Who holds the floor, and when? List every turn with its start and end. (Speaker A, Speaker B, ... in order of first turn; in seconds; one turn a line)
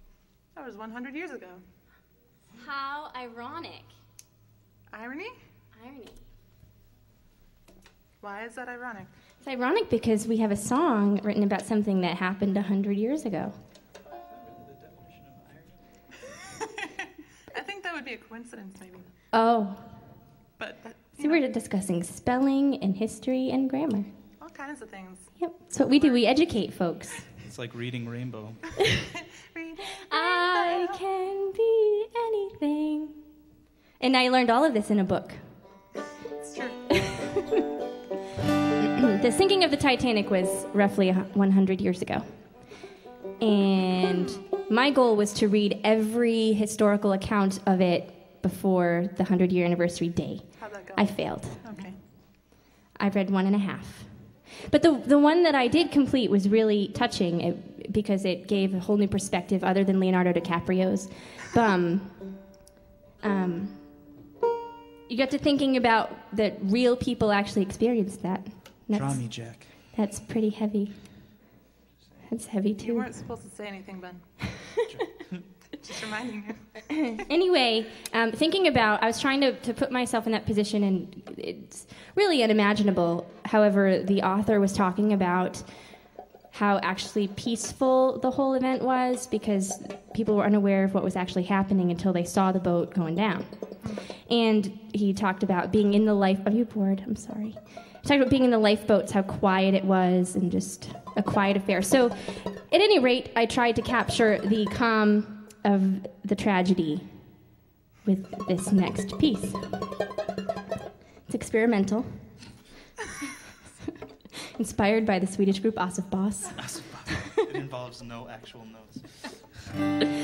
Speaker A: 0.6-1.6
Speaker B: 2.5-3.9
Speaker A: 4.9-5.3
Speaker B: 5.7-6.2
Speaker A: 8.2-9.1
Speaker B: 9.4-13.5
Speaker C: 14.3-16.1
Speaker A: 17.5-19.1
Speaker B: 19.3-20.2
Speaker A: 20.6-21.4
Speaker B: 21.2-24.1
Speaker A: 24.4-26.4
Speaker B: 25.4-27.4
Speaker C: 27.4-28.8
Speaker A: 29.5-31.0
Speaker B: 30.0-33.2
Speaker B: 34.0-35.4
Speaker A: 36.4-37.1
Speaker B: 37.1-37.6
Speaker B: 39.0-42.8
Speaker B: 43.4-51.7
Speaker A: 50.6-52.0
Speaker B: 53.0-62.6
Speaker B: 63.2-64.0
Speaker B: 65.1-71.3
Speaker C: 68.9-69.8
Speaker B: 72.3-73.2
Speaker A: 72.8-74.4
Speaker C: 74.9-75.5
Speaker A: 75.8-76.9
Speaker B: 77.0-107.4
Speaker A: 93.8-94.1
Speaker B: 108.0-109.8
Speaker B: 111.3-112.4
Speaker B: 113.7-113.9
Speaker B: 114.5-116.6
Speaker C: 116.6-119.6